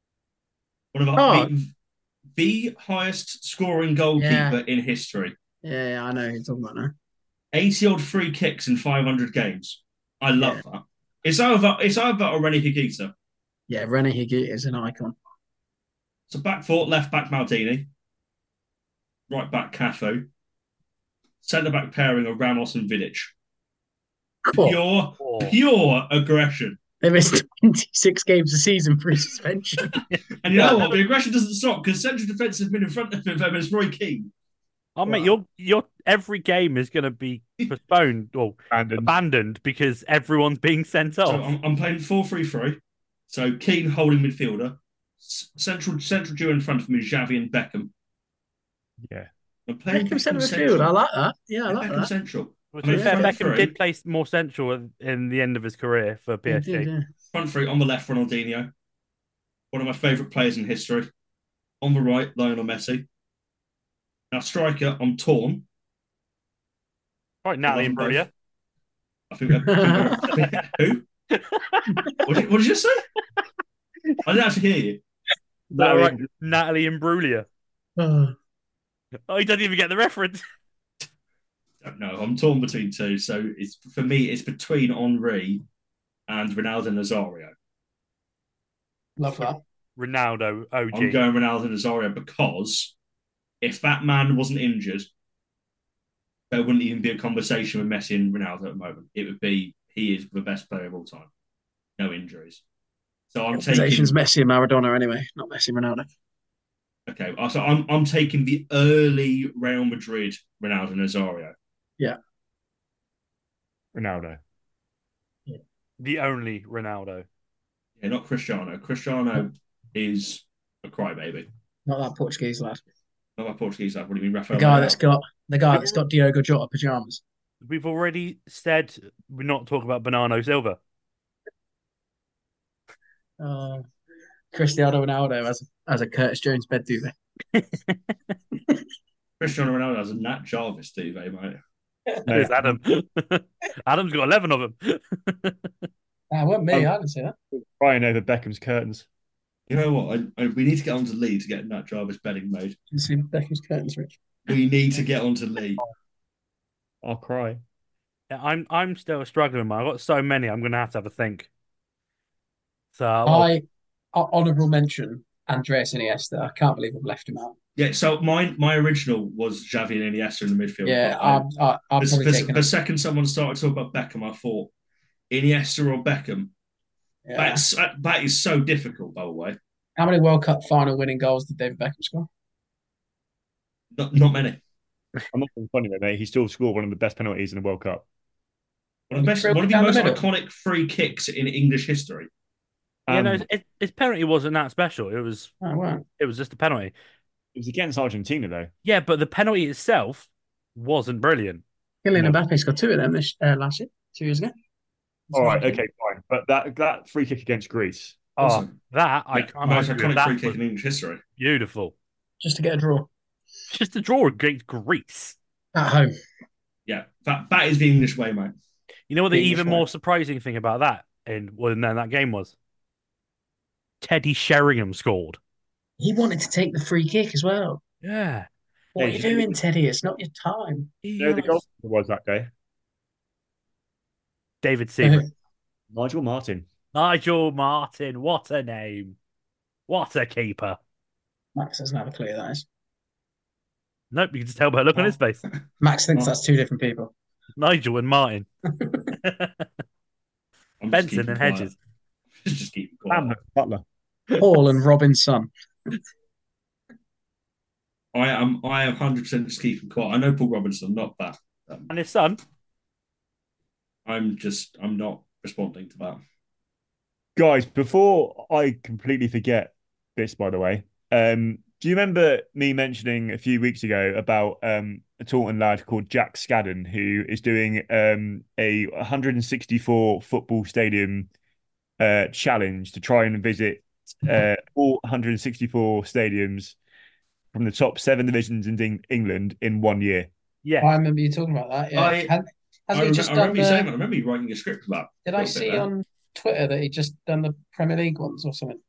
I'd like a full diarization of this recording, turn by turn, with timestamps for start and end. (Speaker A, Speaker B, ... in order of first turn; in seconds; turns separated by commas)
Speaker A: 0.9-1.7, Speaker B: 1.2-1.5, Speaker A: 2.4-5.3, Speaker B: 4.2-4.6, Speaker B: 5.6-6.9, Speaker A: 7.5-13.1, Speaker B: 13.7-15.2, Speaker A: 16.3-17.9, Speaker A: 19.3-20.3, Speaker A: 21.4-23.3, Speaker B: 24.4-24.8, Speaker A: 24.5-26.8, Speaker C: 25.2-25.6, Speaker B: 27.0-30.0, Speaker C: 30.1-31.0, Speaker A: 30.4-34.3, Speaker C: 35.0-41.5, Speaker D: 38.7-39.1, Speaker A: 41.3-47.9, Speaker D: 49.0-49.3, Speaker A: 49.7-50.9, Speaker B: 49.9-52.1, Speaker A: 51.7-53.7, Speaker C: 52.8-56.9, Speaker B: 52.9-53.4, Speaker B: 56.5-57.1, Speaker A: 57.3-58.7, Speaker A: 59.7-61.1, Speaker A: 61.8-63.1, Speaker A: 64.3-65.7, Speaker C: 67.4-68.3, Speaker A: 67.7-68.3, Speaker A: 69.3-71.0, Speaker B: 69.5-70.4, Speaker C: 71.3-72.0, Speaker A: 72.2-73.0, Speaker A: 74.2-75.0, Speaker B: 75.7-76.2, Speaker D: 75.7-76.3, Speaker C: 76.3-77.5, Speaker B: 78.0-78.4, Speaker C: 79.3-80.4, Speaker A: 81.8-85.6, Speaker A: 86.3-87.5, Speaker B: 89.2-89.6, Speaker C: 90.0-91.2, Speaker A: 90.9-92.9, Speaker A: 93.6-95.1, Speaker A: 96.5-101.3, Speaker A: 102.0-102.6, Speaker A: 103.3-104.2, Speaker B: 103.5-106.1, Speaker A: 107.1-111.5, Speaker D: 114.0-114.4, Speaker C: 116.0-117.3, Speaker A: 118.0-121.5, Speaker B: 121.9-122.8, Speaker A: 123.4-125.0, Speaker B: 124.5-127.2, Speaker C: 127.6-130.8, Speaker B: 133.4-133.8, Speaker B: 134.5-137.1, Speaker C: 137.6-138.0, Speaker A: 139.4-141.6, Speaker D: 142.3-142.8, Speaker C: 142.3-145.8, Speaker B: 146.3-147.3, Speaker D: 147.5-149.1, Speaker A: 149.7-152.8, Speaker B: 152.9-154.1, Speaker A: 154.5-155.8, Speaker D: 157.0-157.6, Speaker C: 158.3-161.5, Speaker C: 162.9-163.5, Speaker B: 163.3-167.6, Speaker A: 167.8-171.5, Speaker B: 170.8-172.7, Speaker A: 172.0-174.7, Speaker A: 175.3-176.5, Speaker B: 177.3-177.6, Speaker A: 177.4-179.6, Speaker B: 180.0-182.3, Speaker A: 183.9-184.6, Speaker D: 185.3-188.0, Speaker A: 189.1-192.3, Speaker B: 189.2-190.2, Speaker D: 193.1-193.4, Speaker C: 193.1-195.5, Speaker B: 195.6-196.1, Speaker C: 196.2-196.9, Speaker D: 197.6-198.7, Speaker C: 198.8-201.6, Speaker B: 202.0-204.5, Speaker B: 205.3-205.8, Speaker D: 205.3-208.2, Speaker C: 208.4-210.6, Speaker A: 208.4-208.7, Speaker A: 209.3-211.2, Speaker C: 211.4-211.9, Speaker B: 212.4-213.1, Speaker C: 213.7-215.4, Speaker B: 215.8-216.1, Speaker A: 216.9-218.5, Speaker C: 219.1-222.5, Speaker B: 219.3-219.9, Speaker C: 224.0-225.4, Speaker B: 226.0-227.8, Speaker C: 228.0-228.5, Speaker B: 228.9-230.9, Speaker D: 229.0-229.6, Speaker C: 231.0-231.6, Speaker D: 231.2-232.5, Speaker C: 234.6-235.2, Speaker D: 235.9-236.7, Speaker C: 236.9-239.2, Speaker C: 239.9-240.8, Speaker B: 241.6-242.7, Speaker C: 244.1-245.4, Speaker B: 245.8-247.1, Speaker C: 247.6-248.5, Speaker C: 249.1-249.7, Speaker A: 250.8-251.7, Speaker C: 250.9-251.7, Speaker A: 252.4-253.3, Speaker D: 253.1-253.8, Speaker B: 254.4-255.5, Speaker A: 258.1-261.9, Speaker C: 261.9-262.4, Speaker A: 264.1-266.2, Speaker D: 267.4-281.3, Speaker D: 282.0-286.8, Speaker D: 287.5-290.3, Speaker C: 290.6-290.9, Speaker B: 290.8-293.9, Speaker A: 291.9-292.3, Speaker A: 292.9-295.9, Speaker B: 295.2-298.8